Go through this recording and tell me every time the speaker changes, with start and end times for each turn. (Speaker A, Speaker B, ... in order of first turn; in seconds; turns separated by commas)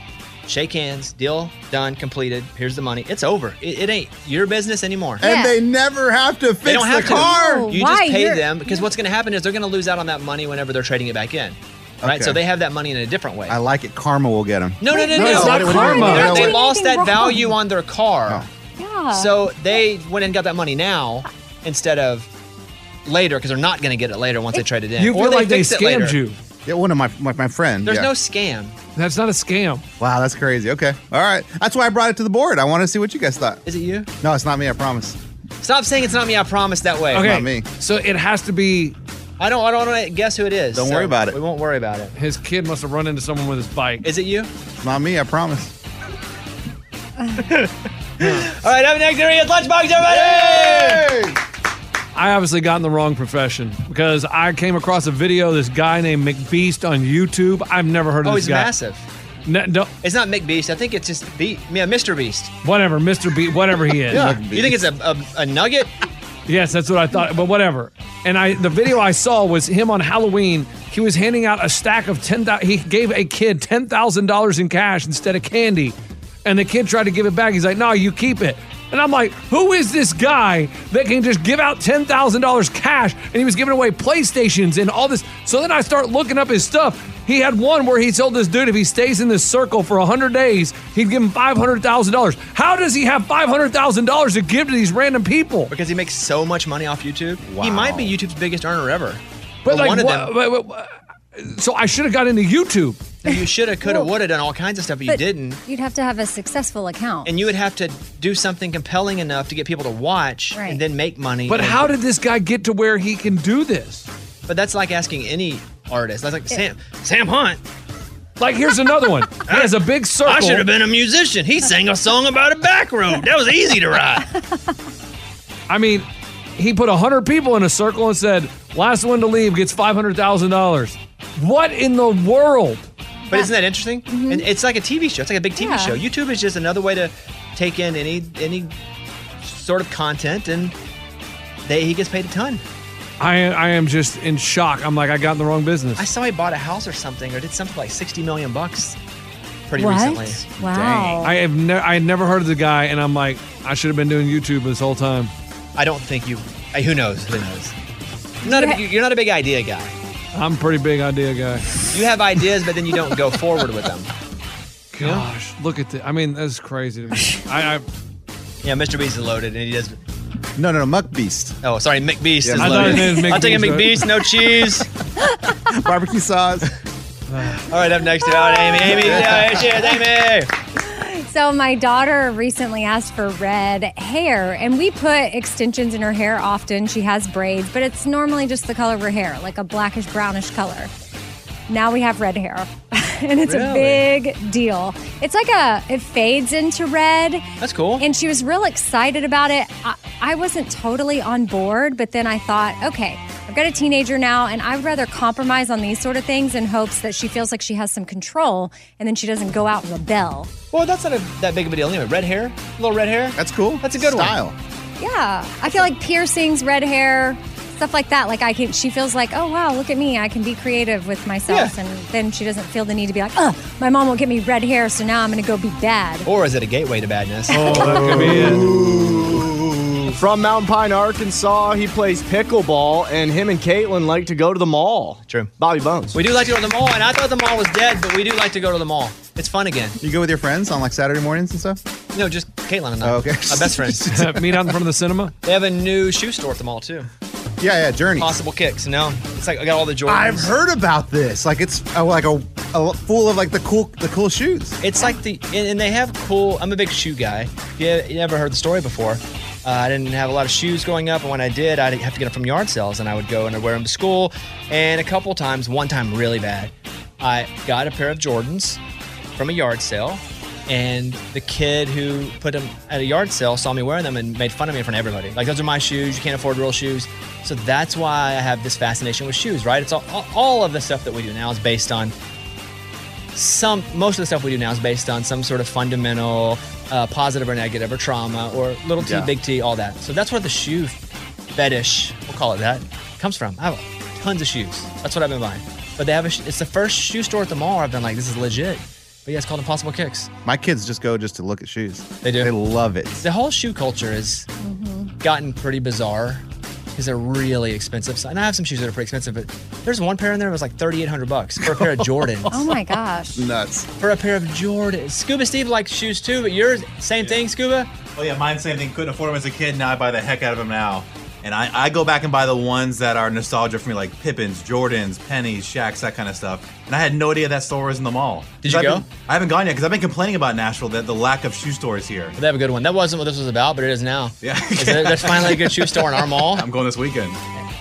Speaker A: 0.5-5.2, Speaker B: 5.2-5.5, Speaker C: 5.2-7.7, Speaker A: 6.6-13.6, Speaker B: 7.1-8.8, Speaker C: 12.0-12.4, Speaker C: 13.5-16.6, Speaker A: 14.8-18.4, Speaker B: 14.9-17.6, Speaker D: 15.2-16.3, Speaker B: 18.8-19.8, Speaker A: 19.1-22.3, Speaker A: 23.1-26.2, Speaker D: 25.0-26.4, Speaker C: 26.6-28.1, Speaker A: 27.8-28.8, Speaker D: 28.9-29.8, Speaker C: 30.0-33.6, Speaker A: 33.6-34.1, Speaker C: 34.2-35.2, Speaker A: 35.6-37.3, Speaker D: 37.1-39.0, Speaker C: 37.1-37.6, Speaker A: 39.4-42.1, Speaker C: 40.7-41.4, Speaker D: 42.1-44.0, Speaker A: 44.0-44.5, Speaker C: 44.8-45.7, Speaker A: 47.4-51.1, Speaker D: 48.2-48.5, Speaker C: 50.0-51.3, Speaker D: 52.1-58.7, Speaker A: 58.2-59.0, Speaker D: 59.4-59.9, Speaker A: 60.0-62.5, Speaker D: 62.6-64.3, Speaker C: 64.1-64.9, Speaker A: 64.1-65.9, Speaker D: 66.5-95.7, Speaker A: 95.7-100.3, Speaker C: 97.4-98.2, Speaker D: 99.7-103.0, Speaker A: 103.2-105.6, Speaker B: 103.8-104.1, Speaker B: 105.1-107.3, Speaker A: 107.2-111.9, Speaker B: 110.5-110.8, Speaker D: 111.5-114.1, Speaker A: 114.5-117.6, Speaker D: 118.4-120.7, Speaker A: 119.5-119.7, Speaker A: 120.2-124.3, Speaker D: 125.7-132.8, Speaker A: 133.3-138.7, Speaker B: 134.1-134.5, Speaker B: 135.6-136.0, Speaker A: 139.4-140.7, Speaker A: 141.6-142.6, Speaker D: 143.2-146.1, Speaker A: 146.0-148.9, Speaker A: 149.7-151.2, Speaker B: 149.8-151.3, Speaker D: 151.2-155.3, Speaker A: 155.8-157.7, Speaker B: 158.4-158.8, Speaker A: 158.4-159.9, Speaker D: 160.3-161.7, Speaker A: 161.9-164.1, Speaker D: 164.9-167.8, Speaker A: 165.0-165.3, Speaker A: 168.6-170.0, Speaker C: 170.6-171.6, Speaker A: 171.6-174.9, Speaker C: 172.4-173.1, Speaker D: 172.5-174.1, Speaker C: 175.7-176.7, Speaker D: 177.3-177.6, Speaker A: 177.7-180.5, Speaker B: 178.2-179.1, Speaker C: 179.0-179.7, Speaker B: 180.8-190.9, Speaker B: 191.7-197.5, Speaker A: 193.4-194.1, Speaker A: 197.6-198.0, Speaker B: 198.0-210.5, Speaker A: 210.7-214.4, Speaker C: 213.3-214.6, Speaker B: 215.0-226.3, Speaker A: 221.5-221.7, Speaker A: 226.2-229.2, Speaker D: 227.5-228.6, Speaker B: 227.5-228.3, Speaker C: 228.4-229.4, Speaker E: 230.1-236.2, Speaker A: 235.3-235.5, Speaker A: 236.1-240.0, Speaker C: 240.0-241.8, Speaker A: 242.1-244.0, Speaker C: 243.0-244.7, Speaker D: 244.1-245.3, Speaker A: 245.4-247.1, Speaker C: 247.6-248.3, Speaker A: 248.2-250.5, Speaker C: 250.1-254.8, Speaker A: 254.8-268.8, Speaker A: 269.3-282.1, Speaker A: 283.3-291.0, Speaker C: 289.0-289.3, Speaker A: 291.5-300.3, Speaker C: 300.4-303.2, Speaker A: 302.2-302.5, Speaker A: 303.2-304.5, Speaker B: 304.6-305.1, Speaker A: 305.2-312.7, Speaker B: 312.5-313.5, Speaker C: 313.4-313.9, Speaker A: 314.0-317.9, Speaker F: 318.1-332.3, Speaker A: 328.6-329.1, Speaker A: 332.4-336.7, Speaker F: 334.4-337.4